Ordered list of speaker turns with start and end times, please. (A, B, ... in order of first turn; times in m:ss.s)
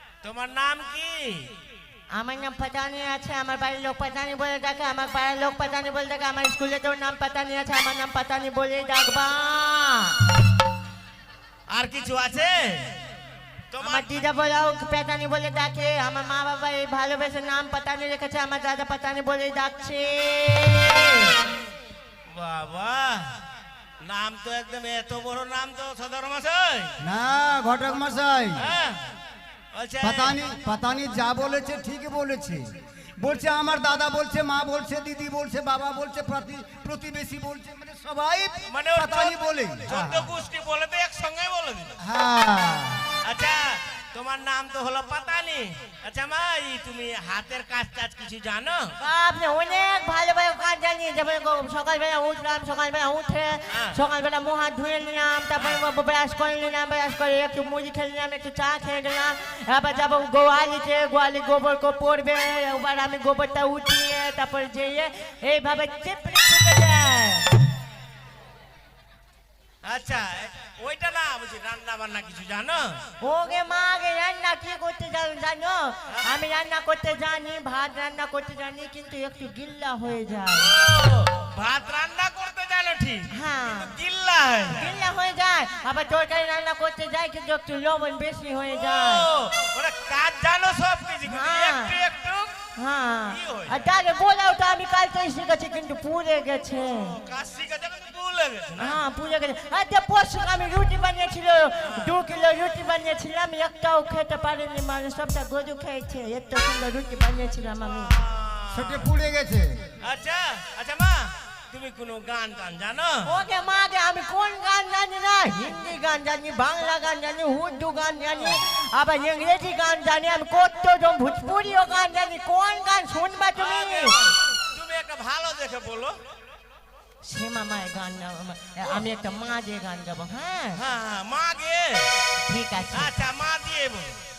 0:00.2-0:01.5 A
0:02.1-0:10.2 B
0:11.7-0:13.0 A
0:13.7-0:14.2 A
0:13.8-0:21.3 B
0:22.3-0:23.4 A
0:24.0-0:26.9 A
0:27.0-0:28.6 C
0:28.6-0:29.0 A
0:29.7-0:30.4 A
0:30.0-0:32.7 C
0:33.2-0:40.3 C
0:38.7-0:42.0 A
0:42.0-0:43.1 C
0:43.2-0:48.9 A
0:49.0-1:07.5 B
0:53.7-0:54.0 A
1:09.8-1:13.0 A
1:13.2-1:20.8 B
1:20.6-1:25.0 A
1:23.3-1:23.9 B
1:24.7-1:29.2 B
1:28.8-1:32.6 A
1:31.2-1:32.0 B
1:32.8-1:37.2 B
1:33.3-1:33.9 A
1:37.1-1:39.0 A
1:38.8-1:48.2 B
1:48.0-1:49.1 A
1:48.7-1:49.8 C
1:50.0-1:53.3 A
1:53.3-2:04.2 B
2:03.6-2:06.2 A
2:07.2-2:10.8 B
2:10.8-2:12.1 A
2:12.4-2:13.1 B
2:12.9-2:14.2 A